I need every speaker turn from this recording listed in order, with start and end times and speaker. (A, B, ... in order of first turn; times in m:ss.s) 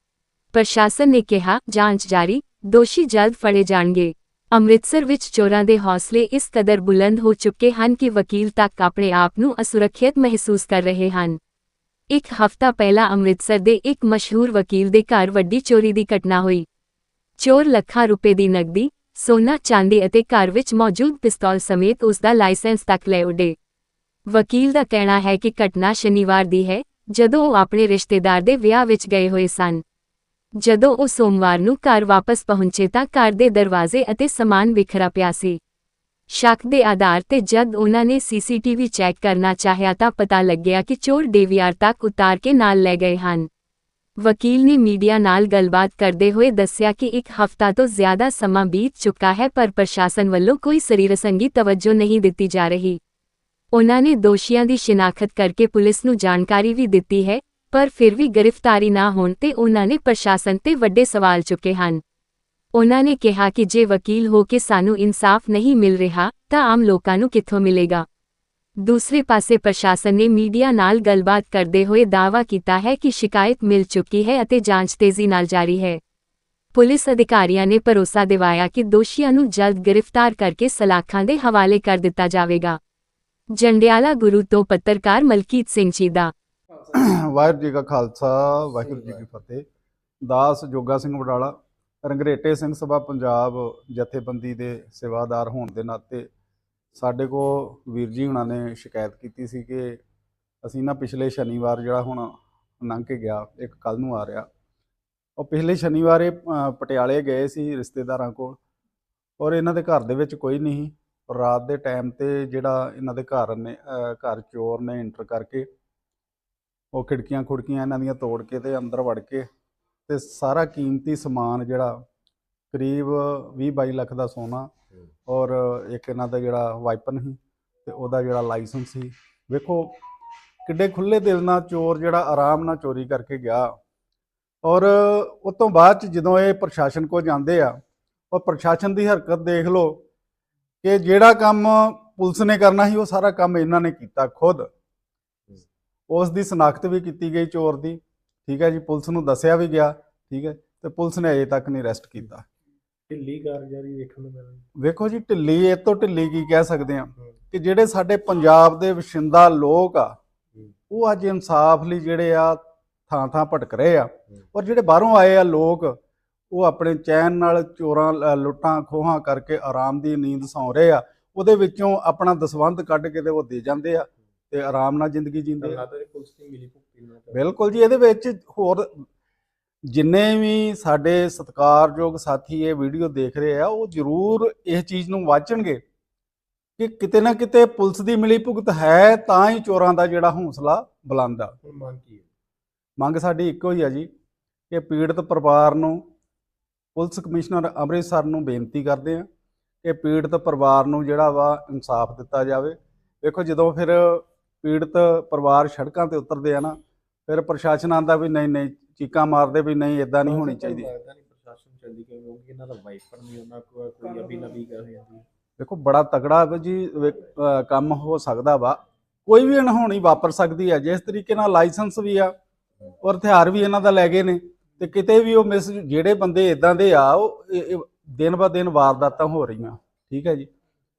0:00.5-0:11.4 A
0:12.1-0:16.7 A
0:17.4-0:23.6 A
0:24.3-0:29.8 A
0:30.6-0:35.6 A
0:36.3-0:43.5 A
0:44.2-0:53.0 A
0:53.7-1:02.0 A
1:02.7-1:08.0 A
1:08.8-1:16.0 A
1:16.7-1:22.8 A
1:23.5-1:26.3 A
1:26.9-1:29.6 B
1:28.8-1:29.2 C
1:30.2-1:36.3 B
1:36.9-1:40.0 B
1:40.6-1:44.5 B
1:45.4-1:48.6 B
1:49.4-1:55.7 B
1:56.9-1:59.4 B
2:00.1-2:02.0 B
2:02.7-2:04.7 B
2:05.3-2:10.0 B
2:10.7-2:13.8 B
2:14.6-2:17.8 B
2:18.3-2:20.0 B
2:20.8-2:24.7 B
2:26.1-2:32.4 B
2:33.1-2:34.7 C
2:34.8-2:40.2 B
2:40.9-2:46.0 B
2:46.5-2:55.8 B
2:55.6-2:57.4 C
2:57.3-2:59.0 B
2:59.9-3:05.8 B
3:06.8-3:11.6 B
3:11.6-3:12.3 C
3:13.0-3:14.1 B
3:14.7-3:16.0 B
3:17.0-3:19.3 B
3:19.8-3:26.8 B
3:27.3-3:30.9 B
3:30.2-3:35.2 C
3:35.6-3:42.3 B
3:43.0-3:50.5 B